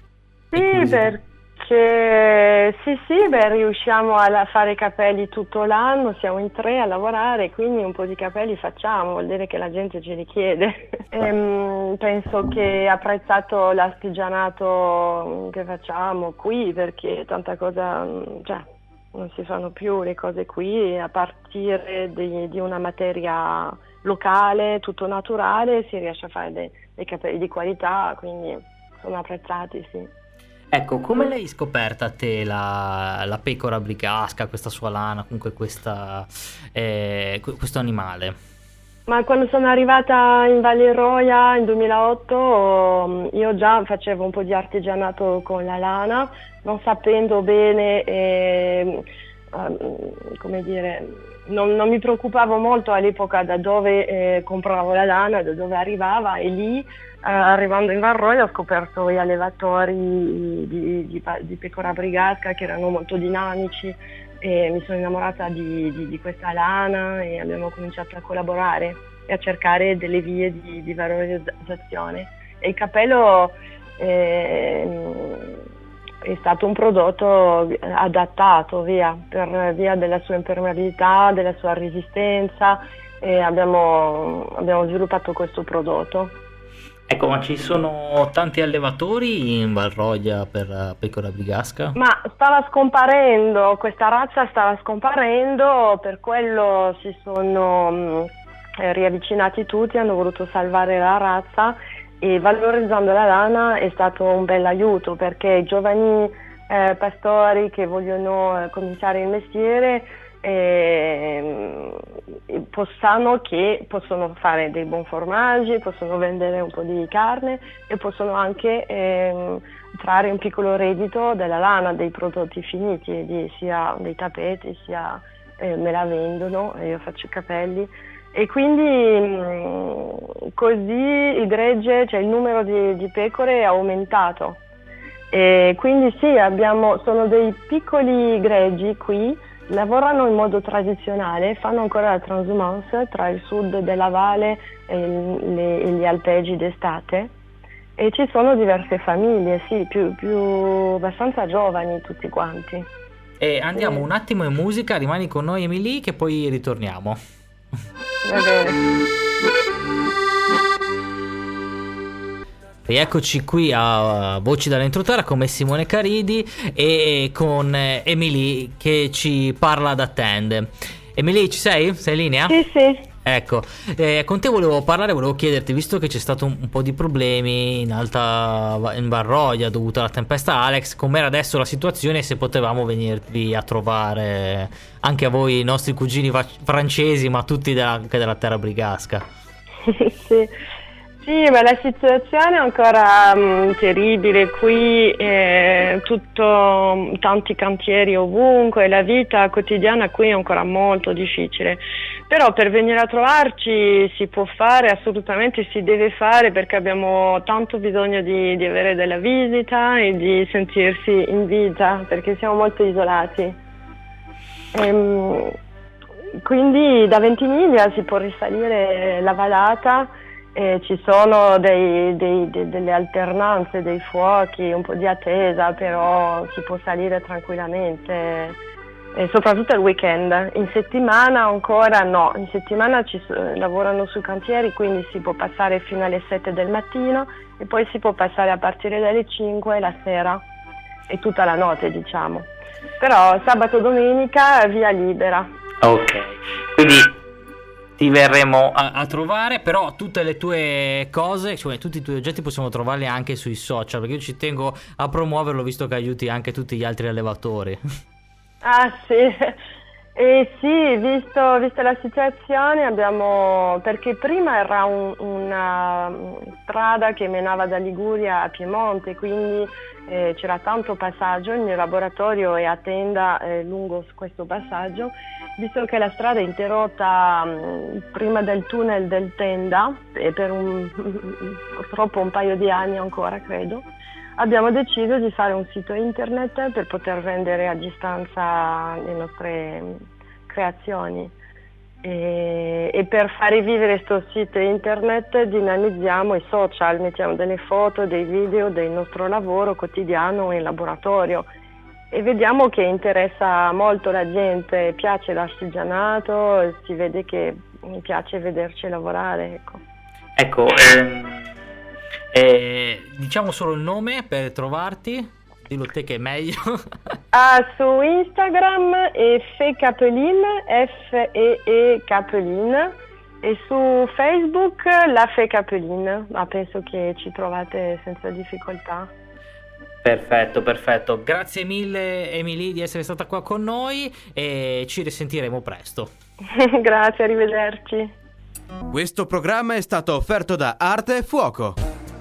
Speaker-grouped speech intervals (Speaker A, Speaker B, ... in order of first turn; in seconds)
Speaker A: 0.5-30.1, 39.1-75.6, 76.2-86.4, 92.0-98.3, 98.8-134.6, 135.3-147.3, 148.0-152.9, 153.8-154.1, 158.2-158.8, 172.5-173.1, 189.8-190.5, 191.2-213.6, 214.7-215.5, 216.4-228.6, 229.1-240.4, 241.1-245.5, 258.6-259.6, 260.1-283.9, 284.4-291.3, 292.0-301.5, 302.1-309.8, 317.3-329.1, 336.4-338.1
Speaker B: 0.5-1.1, 30.7-38.4, 87.1-92.0, 153.4-157.2, 162.9-172.6, 173.2-189.2, 245.8-247.1, 248.0-257.8, 310.4-311.5, 312.3-316.6, 330.0-336.1
Speaker C: 338.9-341.8